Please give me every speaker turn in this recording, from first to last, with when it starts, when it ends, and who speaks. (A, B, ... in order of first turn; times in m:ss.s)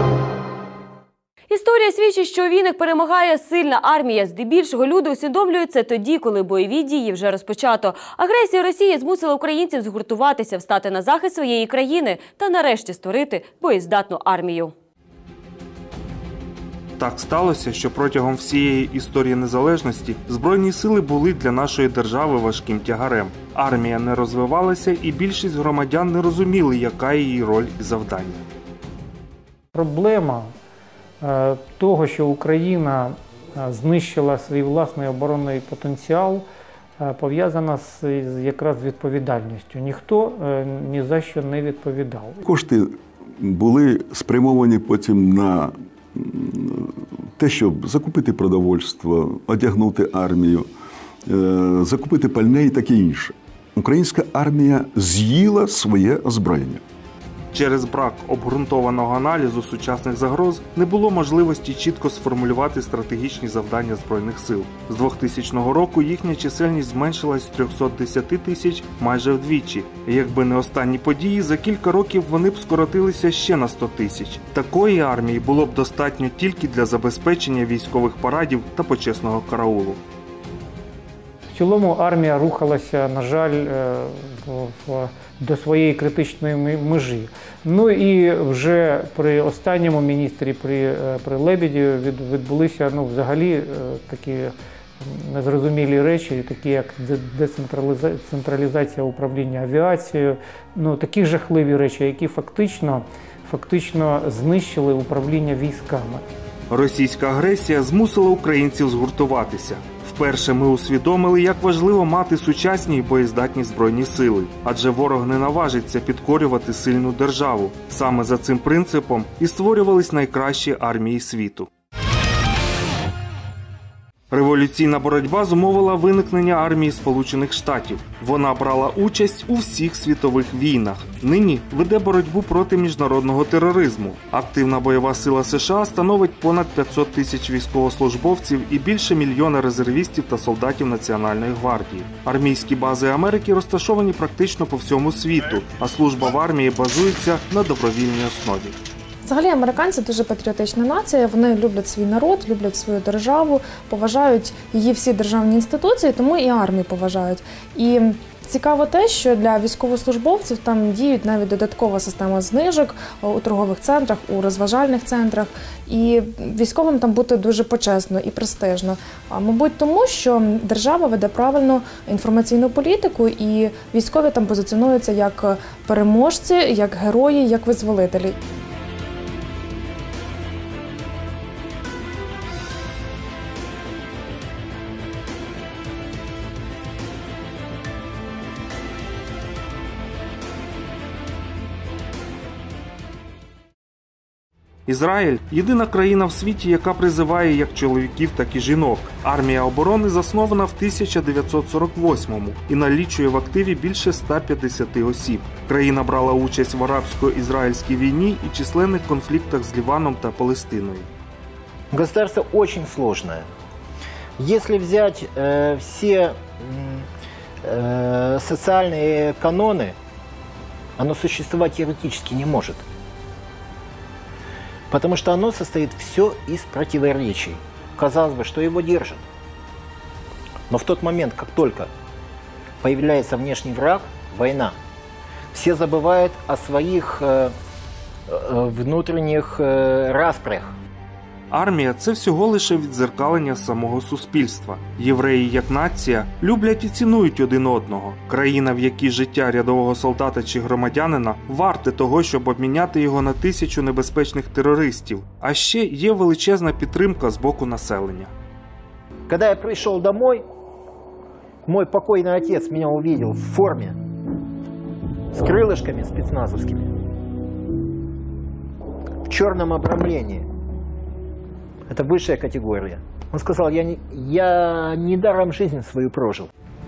0:01.5-0:14.7 A
0:17.0-0:28.4 B
0:29.7-0:30.5 C
0:31.2-0:36.5 C
0:37.0-0:42.4 C
0:42.4-0:50.7 D
0:51.3-0:56.8 D
0:57.5-1:20.0 B
1:21.5-1:46.2 C
1:46.7-2:01.7 B
2:04.3-2:28.8 B
2:29.2-2:58.4 E
3:14.9-3:31.1 B
3:31.9-3:33.5 F
3:34.4-3:37.1 F
3:37.6-3:40.0 F
3:41.0-3:42.8 F
3:44.9-3:49.2 F
3:50.7-3:51.9 F
3:52.8-3:54.8 F
3:55.5-3:57.6 F
3:58.3-4:00.7 F
4:01.5-4:18.3 B
4:19.3-4:20.4 F
4:21.6-4:24.0 F
4:25.3-4:26.9 F
4:29.3-4:30.5 F
4:31.9-4:36.5 F